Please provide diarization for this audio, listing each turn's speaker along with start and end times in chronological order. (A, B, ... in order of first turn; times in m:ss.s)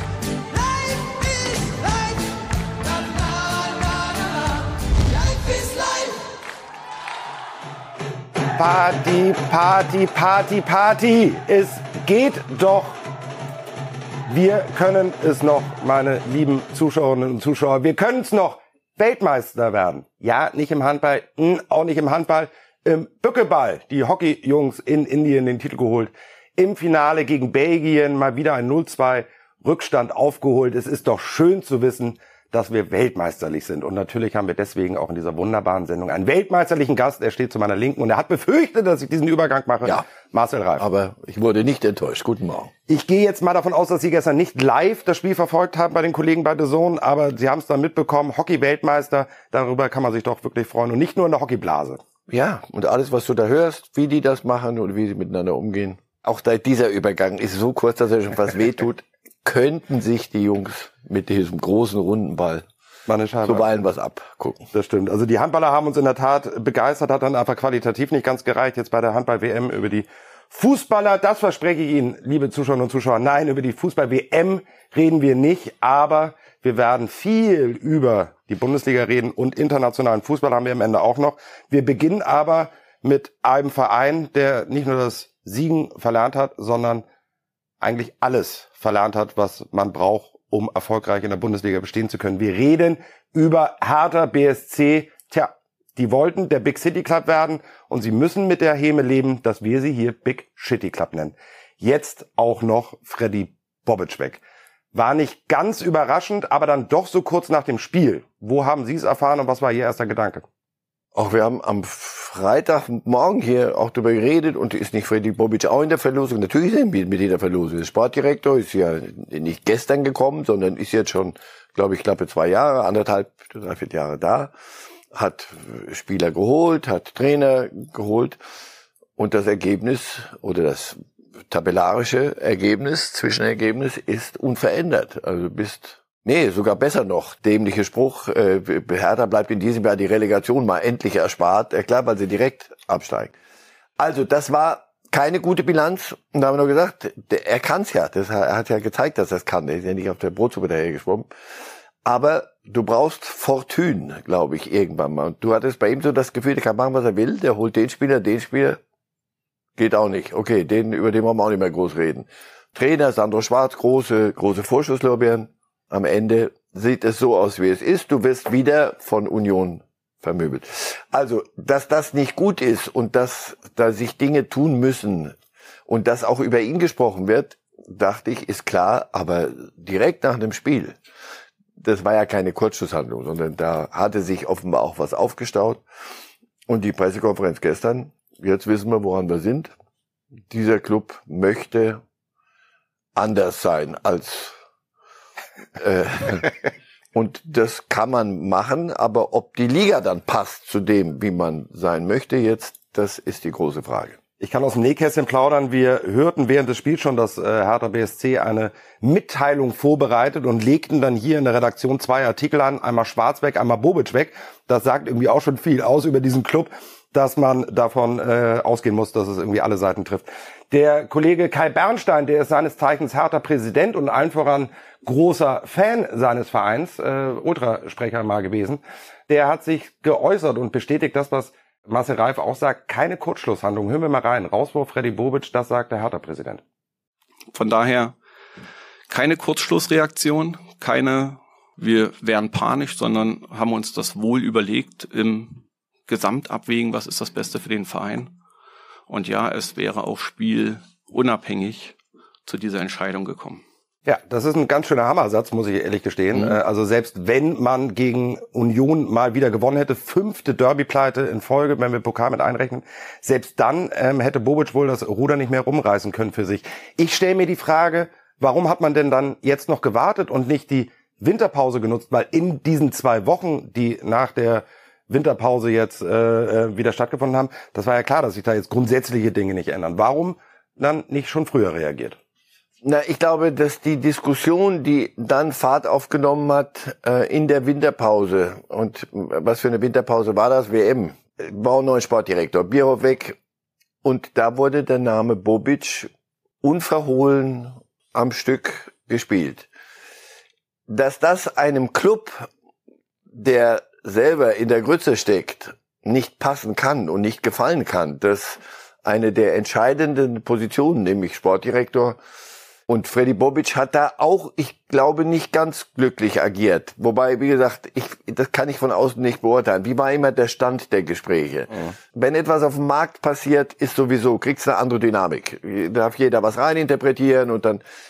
0:08.6-0:13.0 A
0:14.3-0:40.8 A
0:40.8-0:42.7 B
0:42.9-0:52.0 A
0:52.3-1:02.6 B
1:03.1-1:03.7 A
1:03.4-1:04.7 B
1:04.7-1:27.0 A
1:27.8-1:44.4 A
1:44.9-1:50.4 A
1:51.1-2:04.5 B
2:05.1-2:08.4 B
2:09.2-2:11.0 B
2:11.5-2:23.3 B
2:24.0-2:31.3 B
2:32.0-2:38.8 B
2:39.8-2:55.3 B
2:55.9-3:01.0 B
3:01.8-3:05.8 B
3:06.7-3:09.7 B
3:10.5-3:12.0 B
3:13.1-3:14.5 B
3:15.8-3:16.5 B
3:17.1-3:24.2 B
3:24.4-3:56.6 A
3:57.5-3:58.1 C
3:59.1-4:08.3 C
4:09.1-4:13.6 C
4:14.1-4:42.2 A
4:42.8-4:53.4 B
4:54.0-4:56.1 B
4:56.6-4:59.7 B
5:00.9-5:02.5 B
5:03.3-5:12.2 B
5:12.9-5:27.8 B